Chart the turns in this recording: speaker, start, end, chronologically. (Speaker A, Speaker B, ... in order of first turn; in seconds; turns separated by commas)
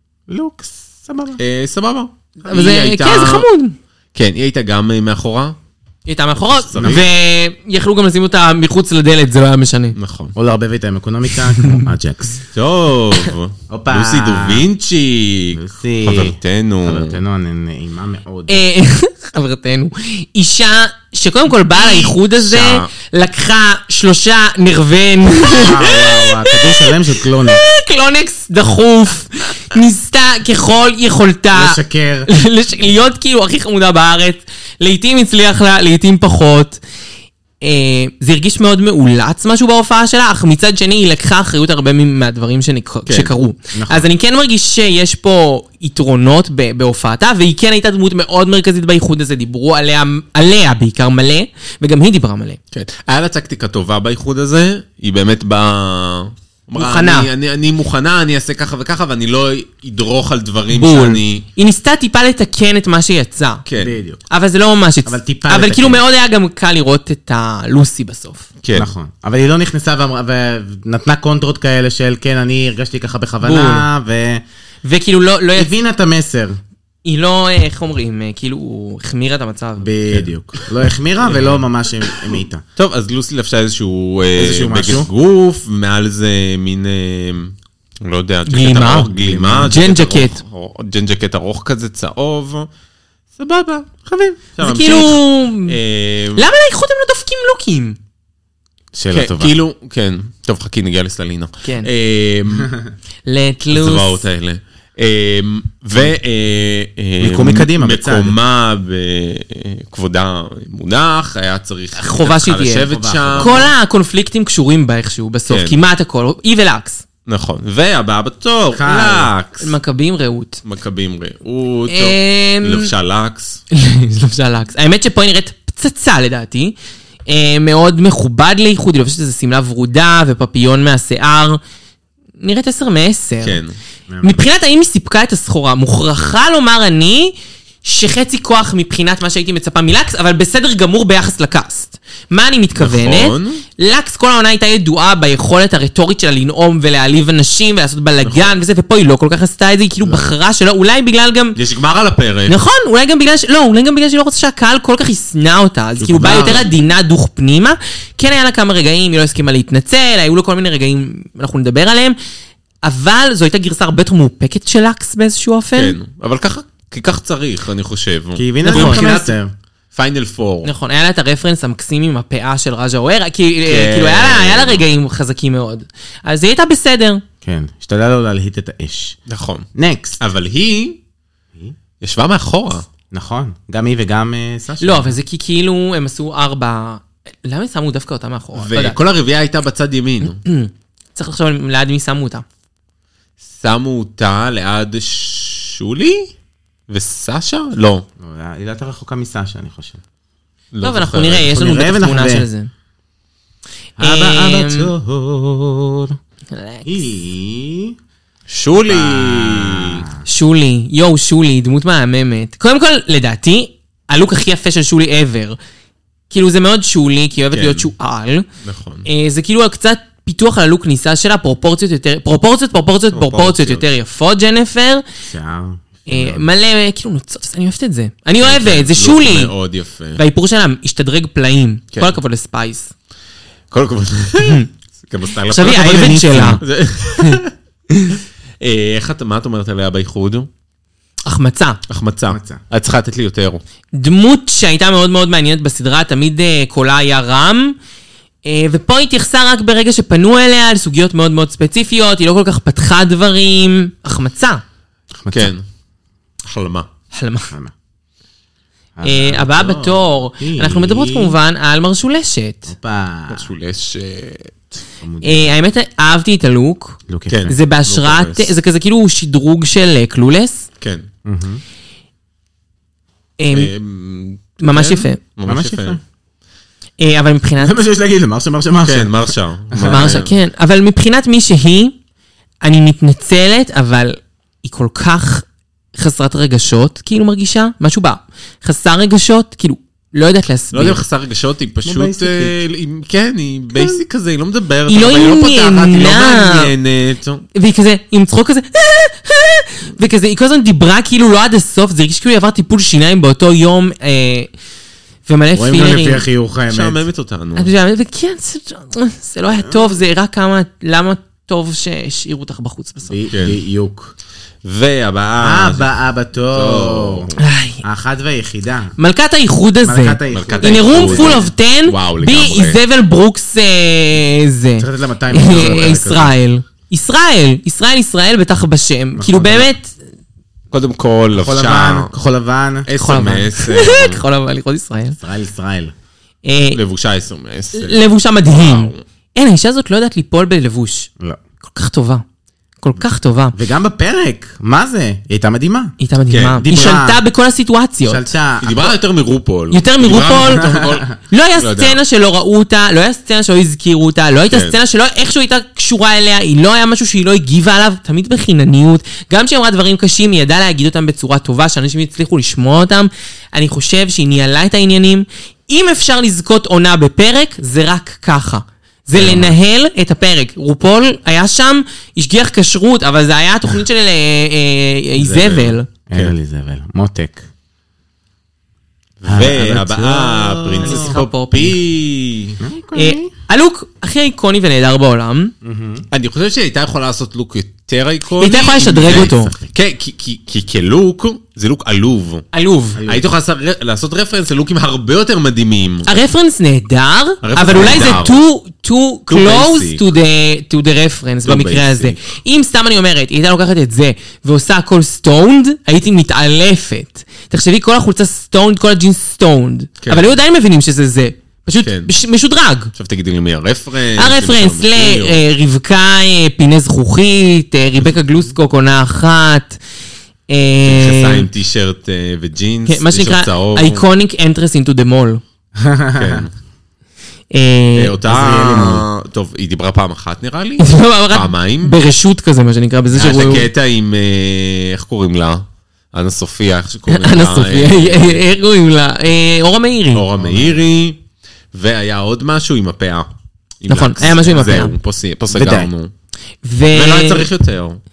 Speaker A: 0.3-1.4, Speaker B: 1.4-3.5, Speaker C: 2.5-3.8, Speaker B: 4.1-5.5, Speaker C: 6.0-9.9, Speaker B: 6.4-7.1, Speaker A: 6.8-7.0, Speaker B: 9.9-10.3, Speaker A: 10.3-12.4, Speaker C: 11.6-11.9, Speaker B: 12.5-17.2, Speaker A: 13.7-14.7, Speaker A: 15.5-18.6, Speaker C: 18.5-36.8, Speaker B: 21.8-22.9, Speaker A: 25.4-27.6, Speaker A: 31.5-32.3, Speaker C: 37.6-52.6, Speaker B: 43.1-43.3, Speaker A: 43.7-44.1, Speaker B: 52.7-61.4, Speaker C: 56.7-57.3, Speaker C: 60.7-63.6, Speaker B: 63.6-64.0, Speaker A: 63.8-64.2, Speaker C: 64.3-68.5, Speaker A: 65.0-66.0, Speaker B: 68.6-68.9, Speaker A: 68.7-74.4, Speaker C: 73.4-73.8, Speaker C: 74.8-75.7, Speaker A: 75.5-76.6, Speaker C: 77.0-79.9, Speaker A: 79.8-82.6, Speaker B: 81.2-81.6, Speaker B: 82.8-92.7, Speaker A: 84.3-85.1, Speaker C: 88.5-89.1, Speaker A: 89.1-89.8, Speaker C: 89.6-90.4, Speaker B: 93.4-96.5, Speaker C: 94.6-95.8, Speaker C: 96.3-98.0, Speaker A: 98.9-99.5, Speaker B: 99.1-102.7, Speaker C: 101.6-101.9, Speaker C: 103.2-104.2, Speaker B: 103.7-113.7, Speaker A: 107.2-108.3, Speaker C: 112.0-112.9, Speaker A: 112.9-113.7, Speaker C: 113.4-117.0, Speaker B: 115.5-115.8, Speaker B: 117.2-119.7, Speaker A: 118.7-119.3, Speaker C: 119.6-120.6, Speaker B: 120.6-123.6, Speaker C: 121.9-122.9, Speaker C: 123.7-126.8, Speaker C: 127.3-131.6, Speaker C: 132.4-133.6, Speaker B: 133.4-133.8, Speaker A: 134.1-134.4, Speaker C: 134.2-151.6, Speaker B: 142.8-143.6, Speaker B: 148.2-148.5, Speaker B: 151.6-152.6, Speaker C: 152.5-162.2, Speaker B: 156.0-156.7, Speaker A: 156.2-156.7, Speaker C: 162.8-166.0, Speaker B: 165.7-169.4, Speaker A: 168.3-169.5, Speaker C: 168.6-169.1, Speaker B: 169.9-170.7, Speaker C: 170.6-177.2, Speaker B: 173.7-174.8, Speaker A: 177.4-179.2, Speaker B: 179.3-181.0, Speaker A: 179.7-180.2, Speaker B: 182.0-182.8, Speaker A: 183.1-185.2, Speaker C: 184.8-189.0, Speaker B: 188.5-190.4, Speaker C: 190.2-192.4, Speaker B: 193.4-196.3, Speaker B: 196.9-198.1, Speaker A: 198.2-200.0, Speaker B: 200.7-201.5, Speaker C: 200.8-202.7, Speaker A: 201.5-202.5, Speaker A: 204.0-206.2, Speaker C: 204.0-204.9, Speaker C: 206.5-207.0, Speaker A: 206.8-207.9, Speaker B: 208.5-210.1, Speaker A: 208.9-210.2, Speaker C: 210.2-215.6, Speaker C: 216.3-218.5, Speaker B: 217.5-217.9, Speaker B: 218.6-219.1, Speaker C: 219.0-225.0, Speaker B: 223.1-223.9, Speaker A: 225.2-226.4, Speaker C: 226.1-229.5, Speaker B: 228.4-230.2, Speaker C: 230.2-232.9, Speaker B: 233.7-237.5, Speaker C: 234.4-234.7, Speaker C: 235.5-236.6, Speaker C: 237.9-238.2, Speaker B: 238.6-240.5, Speaker C: 241.2-241.8, Speaker B: 241.9-243.6, Speaker A: 242.3-242.6, Speaker C: 243.9-247.8, Speaker C: 248.4-254.6, Speaker A: 255.2-255.5, Speaker B: 255.3-255.6, Speaker B: 256.5-256.9, Speaker C: 257.1-257.5, Speaker A: 259.0-261.4, Speaker C: 259.0-262.7, Speaker A: 262.7-263.5, Speaker B: 263.3-264.6, Speaker A: 265.0-265.5, Speaker C: 265.2-270.6, Speaker A: 267.1-267.5, Speaker B: 267.3-268.5, Speaker A: 271.2-271.6, Speaker C: 273.4-273.7, Speaker B: 273.5-276.0, Speaker C: 274.6-275.2, Speaker A: 275.4-276.0, Speaker C: 277.0-277.8, Speaker A: 277.6-280.2, Speaker B: 278.8-280.3, Speaker C: 279.8-281.9, Speaker C: 282.6-291.0, Speaker B: 290.7-297.4, Speaker A: 291.8-292.6, Speaker A: 293.7-294.0, Speaker C: 294.9-296.7, Speaker C: 297.5-304.5, Speaker C: 305.2-306.2, Speaker A: 305.6-307.0, Speaker B: 306.7-307.7, Speaker C: 307.6-313.2, Speaker A: 309.6-309.9, Speaker A: 313.0-314.1, Speaker B: 313.3-313.6, Speaker B: 314.6-315.9, Speaker A: 315.4-317.3, Speaker B: 316.5-317.4, Speaker C: 317.4-317.8, Speaker A: 317.8-318.9, Speaker C: 319.0-329.9, Speaker A: 319.8-321.5, Speaker B: 320.3-322.8, Speaker A: 324.8-326.3, Speaker A: 329.1-329.7, Speaker B: 330.7-332.1, Speaker A: 331.3-332.9, Speaker B: 332.9-334.2, Speaker C: 333.0-335.2, Speaker A: 335.2-335.9, Speaker C: 336.4-336.8, Speaker B: 336.7-339.0, Speaker C: 337.7-341.1, Speaker C: 341.6-342.2, Speaker C: 342.8-343.5, Speaker A: 343.5-345.9, Speaker C: 346.0-348.3, Speaker B: 346.3-346.9, Speaker A: 346.6-347.2, Speaker A: 348.0-348.9, Speaker B: 348.6-352.0, Speaker C: 349.7-375.9, Speaker A: 350.4-351.1, Speaker B: 354.5-354.8, Speaker A: 369.2-369.5, Speaker B: 375.2-376.3, Speaker A: 376.1-377.4, Speaker B: 379.2-382.6, Speaker A: 379.2-381.2, Speaker C: 380.8-381.8, Speaker A: 382.6-383.3, Speaker C: 382.9-385.5, Speaker A: 385.6-386.0, Speaker B: 386.1-392.4, Speaker C: 388.4-389.5, Speaker A: 389.1-389.7, Speaker C: 392.5-393.0, Speaker A: 392.9-393.3, Speaker B: 393.0-396.1, Speaker C: 396.1-412.9, Speaker B: 397.4-398.4, Speaker B: 399.3-400.0, Speaker B: 401.4-402.2, Speaker B: 410.0-410.4, Speaker B: 411.8-412.1, Speaker B: 412.9-415.4, Speaker C: 414.2-419.8, Speaker C: 420.5-421.5, Speaker B: 420.8-424.0, Speaker C: 422.9-425.4, Speaker A: 425.8-426.4, Speaker B: 426.1-426.5, Speaker C: 427.5-428.2, Speaker B: 427.9-431.9, Speaker A: 428.3-429.1, Speaker C: 430.8-433.7, Speaker B: 433.1-438.4, Speaker C: 437.1-440.2, Speaker B: 440.1-441.2, Speaker A: 440.4-440.8, Speaker B: 441.7-443.3, Speaker B: 443.8-446.1, Speaker C: 443.9-444.9, Speaker A: 445.5-445.9, Speaker C: 446.6-447.5, Speaker B: 446.9-448.0